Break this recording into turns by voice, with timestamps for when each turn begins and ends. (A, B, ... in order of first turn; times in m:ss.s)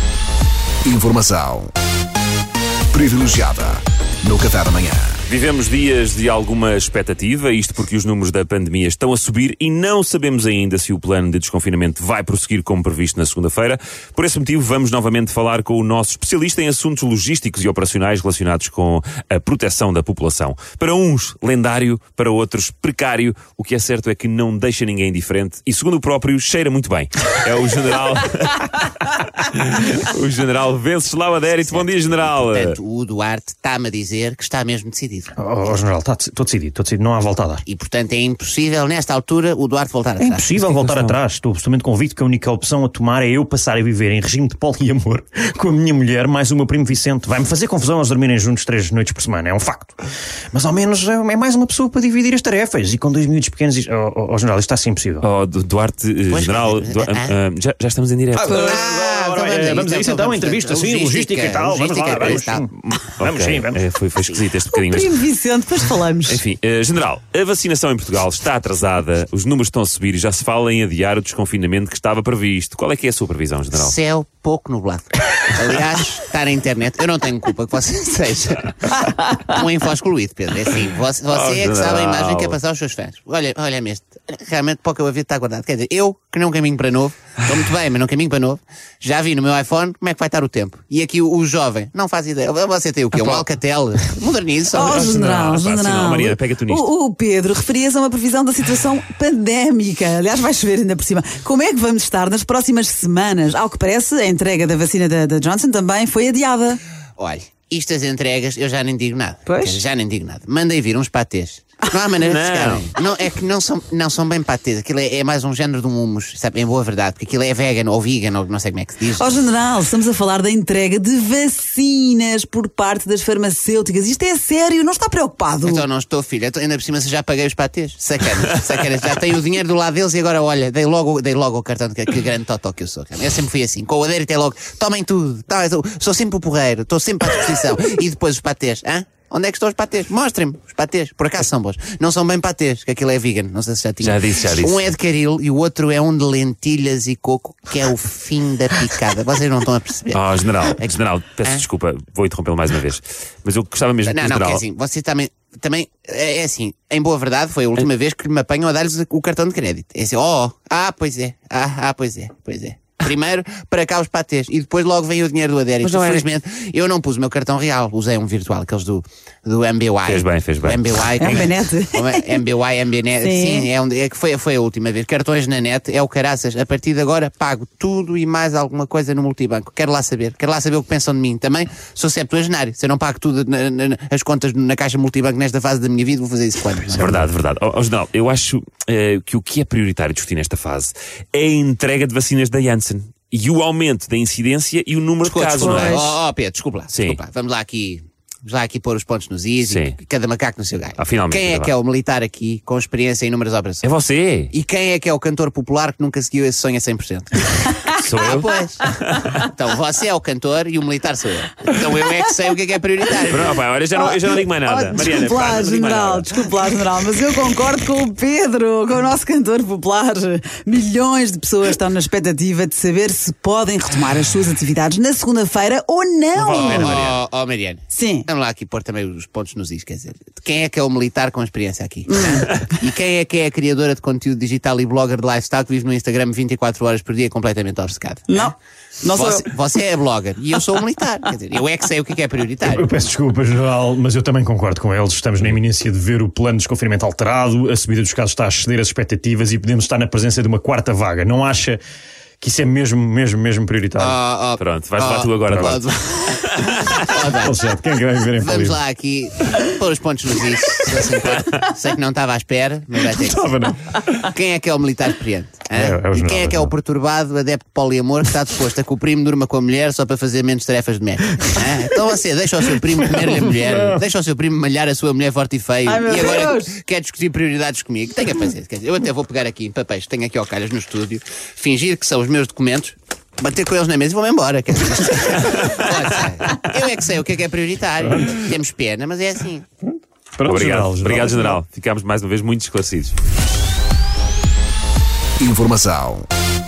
0:00.8-0:01.7 A
0:02.9-0:05.2 A
0:05.3-0:32.8 B
0:31.6-0:35.3 C
0:35.4-0:37.6 D
0:37.7-0:40.6 C
0:40.2-0:50.0 D
0:40.6-0:41.2 B
0:50.5-0:55.3 D
0:55.2-0:58.7 B
0:56.3-0:57.4 C
0:58.4-1:03.8 D
0:58.5-0:58.8 E
0:58.5-1:02.6 C
1:02.2-1:05.2 B
1:04.7-1:06.4 E
1:06.3-1:14.0 B
1:13.7-1:35.1 C
1:21.3-1:22.6 B
1:33.2-1:33.4 B
1:34.7-1:46.8 E
1:34.8-1:36.9 B
1:47.2-1:59.4 C
1:49.5-1:49.8 E
1:52.2-1:52.9 B
1:59.2-2:05.8 E
2:05.6-2:31.6 C
2:24.0-2:24.8 B
2:30.1-2:34.6 B
2:34.1-3:07.3 C
2:45.8-2:46.3 B
2:50.0-2:51.4 B
2:51.2-2:52.4 E
2:53.2-2:53.7 E
3:06.9-3:16.2 B
3:15.2-3:23.9 C
3:15.6-3:16.1 E
3:16.9-3:17.2 B
3:19.6-3:20.0 B
3:21.0-3:21.7 B
3:23.8-3:24.5 B
3:24.5-3:28.8 C
3:28.0-3:29.3 B
3:29.4-3:33.6 C
3:33.3-3:36.5 B
3:34.0-3:47.0 E
3:46.4-3:47.2 B
3:46.5-3:58.5 C
3:47.9-3:48.3 E
3:52.1-3:52.7 E
3:58.3-3:59.5 E
3:59.1-4:02.9 C
4:02.6-4:11.8 D
4:12.4-4:14.2 D
4:14.0-4:16.5 C
4:14.6-4:17.2 B
4:17.0-4:17.6 C
4:17.3-4:18.8 D
4:18.4-4:49.6 C
4:23.1-4:24.3 D
4:25.7-4:26.7 D
4:33.1-4:34.0 D
4:35.9-4:36.8 E
4:45.5-4:45.9 B
4:48.0-4:48.5 D
4:50.4-4:51.6 D
4:50.5-4:53.2 B
4:55.4-4:56.3 A